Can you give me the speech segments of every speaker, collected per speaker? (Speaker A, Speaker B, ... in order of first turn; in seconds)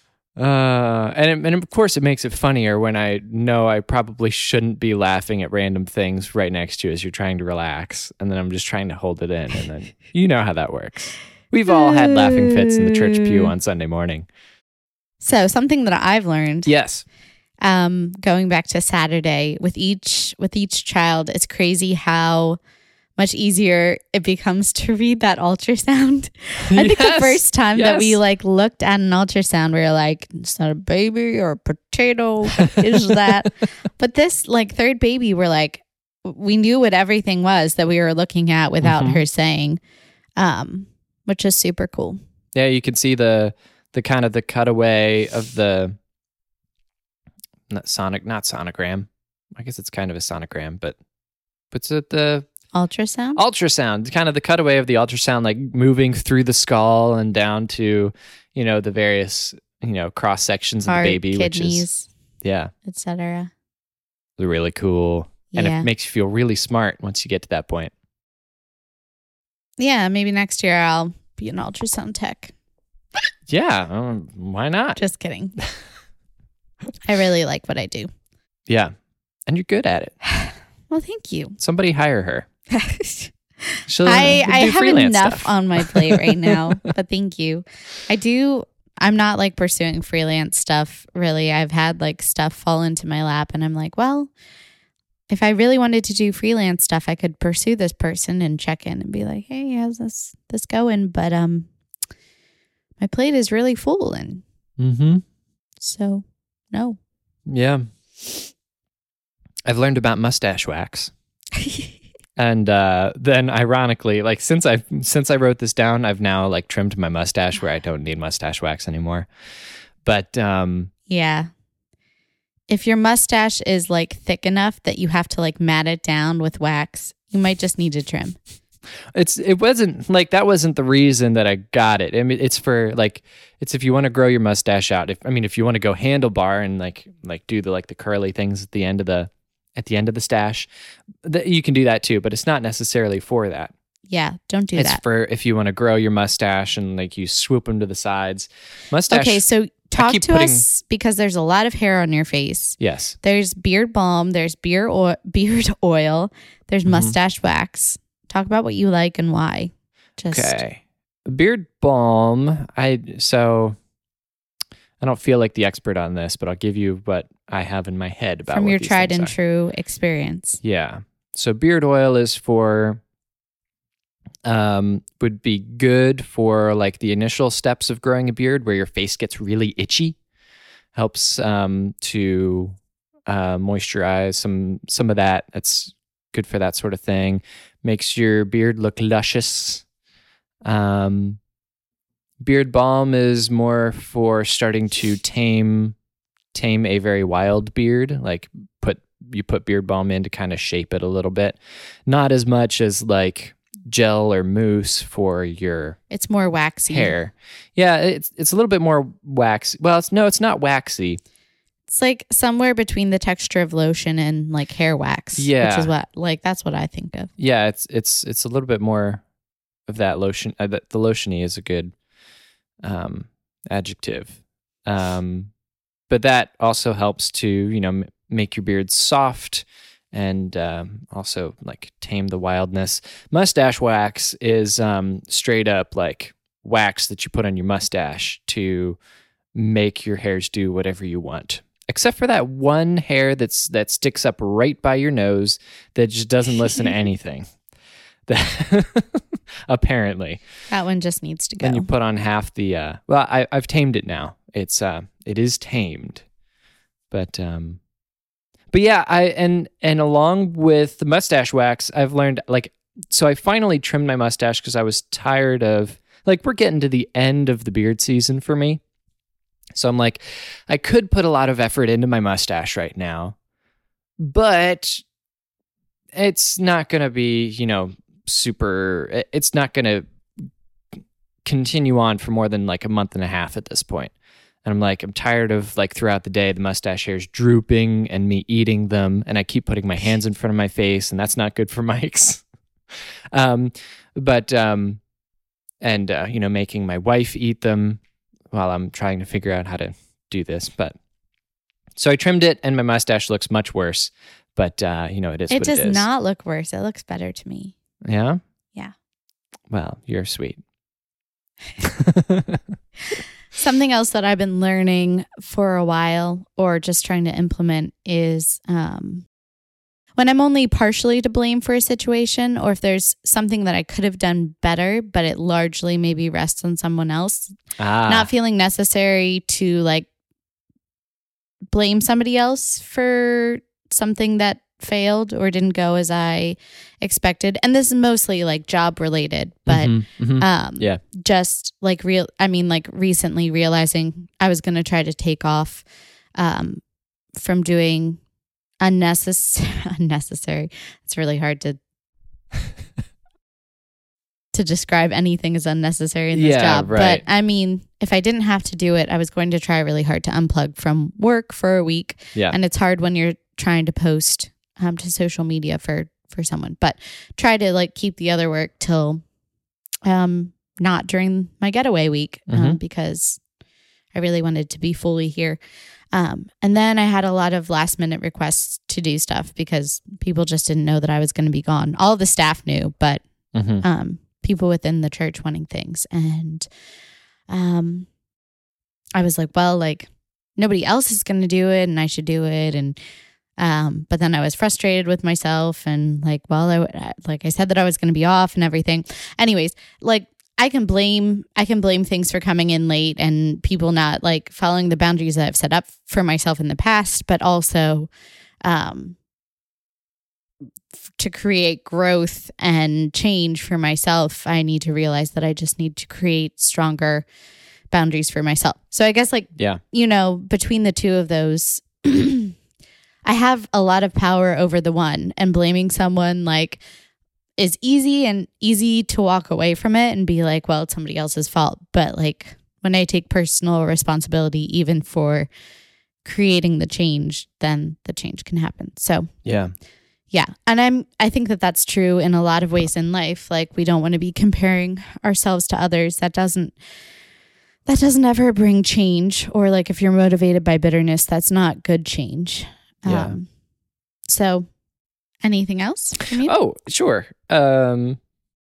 Speaker A: 0.4-14.3, 16.7-17.0, 26.7-28.2, 32.6-33.3, 38.8-39.2, 42.5-46.0, 47.7-51.0, 51.7-52.5, 53.4-61.9, 62.4-62.7, 64.4-67.9, 73.5-75.0, 78.7-78.9, 79.5-80.2, 81.6-82.5, 83.9-86.8, 104.8-105.2, 107.5-107.8, 109.7-111.1, 112.4-119.3, 120.0-120.9, 129.2-140.7, 141.2-143.7, 144.8-149.4, 150.0-150.7, 152.8-153.2, 156.9-157.2, 160.3-163.8, 165.0-169.3, 170.6-173.0, 174.4-180.2, 180.9-189.8, 190.7-191.4, 192.4-195.9, 196.5-206.0, 206.9-211.2, 215.4-215.9, 217.4-219.2, 219.9-221.9, 222.8-225.5, 226.1-239.0, 239.6-247.4, 248.3-250.4, 251.6-256.2, 257.1-257.8, 258.7-268.8, 269.8-273.4, 274.2-275.0, 276.1-280.1, 281.4-284.1, 284.6-292.4, 293.3-295.0, 295.8-301.0, 302.0-306.1, 308.1-308.4, 309.7-310.6, 311.8-312.6, 327.8-328.3, 339.7-341.0, 356.3-357.2, 372.5-372.8, 383.5-383.9, 419.6-419.8, 439.4-439.7, 453.1-453.4, 456.4-458.2
Speaker B: 11.7-13.5, 15.2-16.7, 17.6-22.6, 23.2-39.8, 40.4-42.2, 52.7-53.4, 60.9-62.1, 62.9-63.5, 65.5-65.9, 69.8-72.5, 75.0-75.6, 77.0-78.1, 80.3-81.6, 82.7-94.3, 95.3-101.7, 103.0-104.4, 105.8-107.0, 121.1-121.5, 122.7-128.4, 144.1-145.0, 149.1-160.6, 168.5-170.6, 206.1-207.2, 211.9-217.3, 250.7-251.9, 305.5-307.7, 313.5-319.3, 320.2-327.6, 328.1-330.1, 331.7-345.9, 346.4-346.8, 347.3-348.2, 348.8-351.8, 354.5-369.2, 370.1-373.4, 374.1-375.6, 376.1-383.2, 383.8-386.7, 387.5-388.1, 389.2-393.0, 393.6-408.1, 408.6-409.2, 411.1-417.3, 417.9-422.6, 423.2-426.8, 427.6-435.5, 436.2-439.4, 440.3-446.8, 447.9-453.5, 454.3-454.7, 455.4-456.5